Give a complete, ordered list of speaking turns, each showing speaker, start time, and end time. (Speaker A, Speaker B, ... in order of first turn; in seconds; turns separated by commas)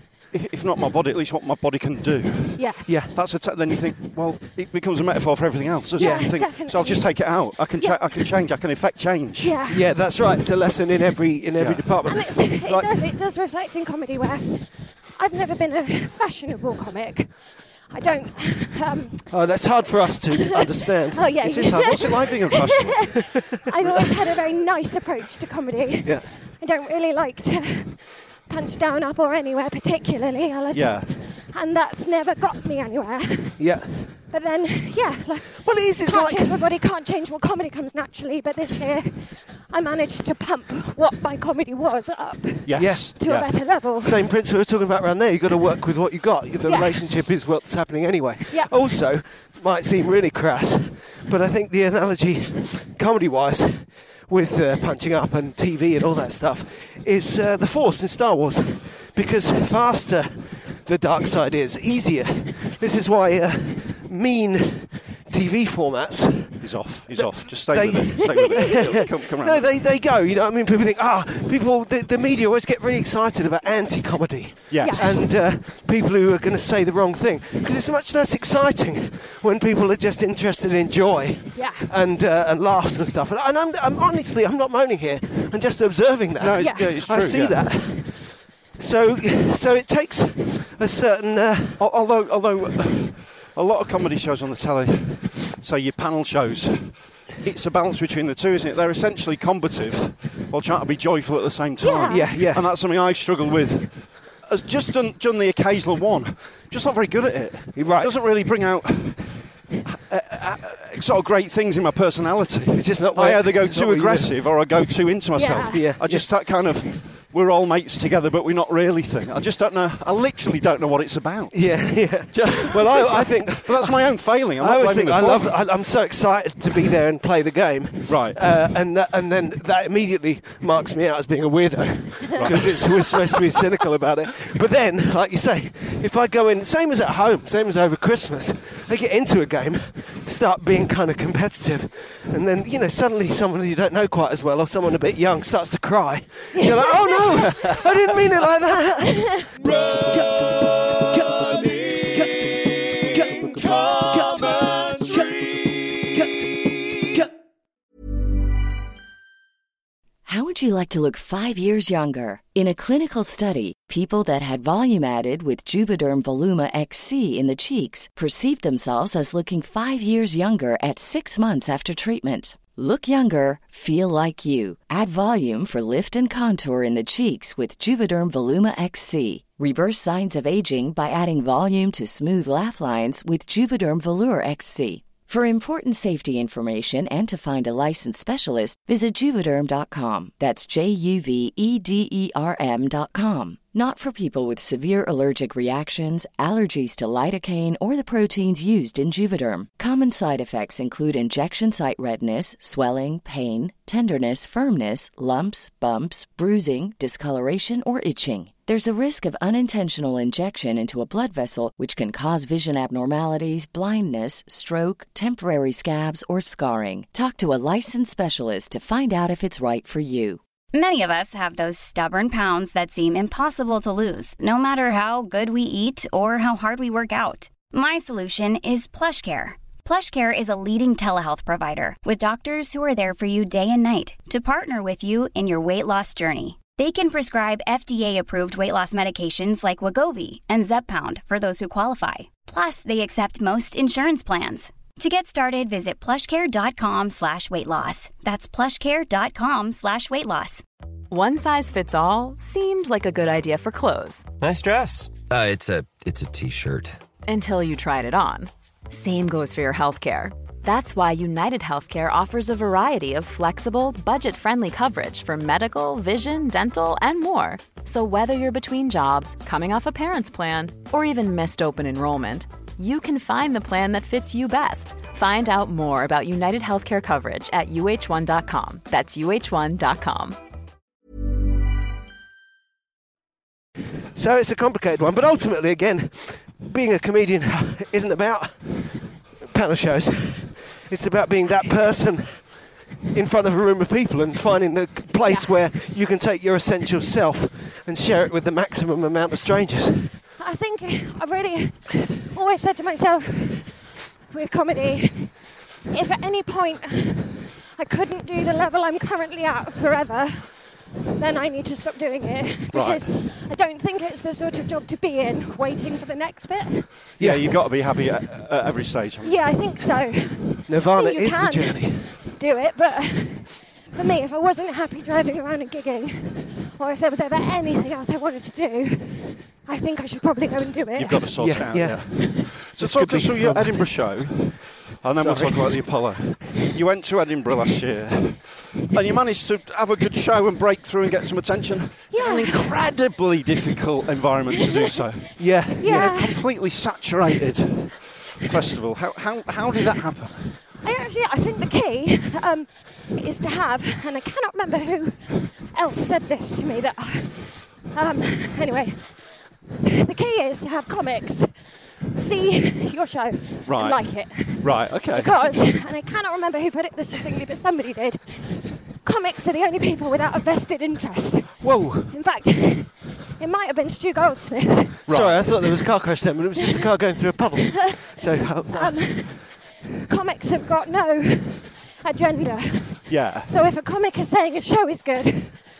Speaker A: 0.3-9.6, Speaker B: 2.5-2.9, Speaker C: 2.9-3.1, Speaker C: 6.0-6.4, Speaker B: 6.0-8.3, Speaker B: 9.4-9.8, Speaker C: 9.7-12.9, Speaker A: 11.6-11.9, Speaker B: 12.0-19.3, Speaker C: 19.3-21.3, Speaker B: 21.1-33.7, Speaker A: 21.4-23.3, Speaker C: 23.8-24.1, Speaker C: 26.0-26.3, Speaker A: 30.7-31.1, Speaker C: 33.6-34.1, Speaker B: 34.3-44.2, Speaker C: 35.6-36.7, Speaker A: 42.6-43.7, Speaker C: 42.7-43.3, Speaker C: 44.0-91.8, Speaker B: 46.6-47.2, Speaker A: 66.6-69.8, Speaker A: 74.7-75.2, Speaker B: 74.8-75.2, Speaker B: 81.5-81.9, Speaker A: 86.4-87.6, Speaker B: 86.6-86.9, Speaker A: 91.8-125.5, Speaker B: 101.8-102.3, Speaker C: 102.1-102.7, Speaker C: 107.7-108.2, Speaker C: 112.7-114.5, Speaker B: 115.3-115.9, Speaker C: 115.7-116.3, Speaker C: 121.5-157.3, Speaker A: 128.1-128.4, Speaker A: 132.3-133.0, Speaker B: 146.5-147.8, Speaker D: 160.2-220.4, Speaker E: 220.7-250.6, Speaker F: 251.1-254.3, Speaker G: 254.4-257.0, Speaker F: 257.2-280.4, Speaker C: 284.1-292.5, Speaker C: 293.1-300.1, Speaker B: 295.2-295.6, Speaker B: 300.4-303.8, Speaker B: 304.3-305.4, Speaker B: 305.9-310.5, Speaker B: 311.2-316.9, Speaker A: 312.7-313.1, Speaker C: 317.2-317.5, Speaker A: 317.2-319.6, Speaker B: 319.2-331.3, Speaker C: 320.7-322.1, Speaker A: 330.9-350.6, Speaker C: 331.4-334.5, Speaker C: 335.1-335.8, Speaker B: 342.1-342.7, Speaker B: 344.5-345.0, Speaker C: 345.4-346.1, Speaker B: 345.8-346.4, Speaker B: 350.8-359.1, Speaker B: 359.8-361.5, Speaker B: 362.1-368.2, Speaker A: 363.6-365.8, Speaker B: 369.0-375.0, Speaker C: 371.6-372.1, Speaker A: 375.1-375.5, Speaker C: 375.1-379.0, Speaker B: 377.9-385.6, Speaker A: 383.1-383.5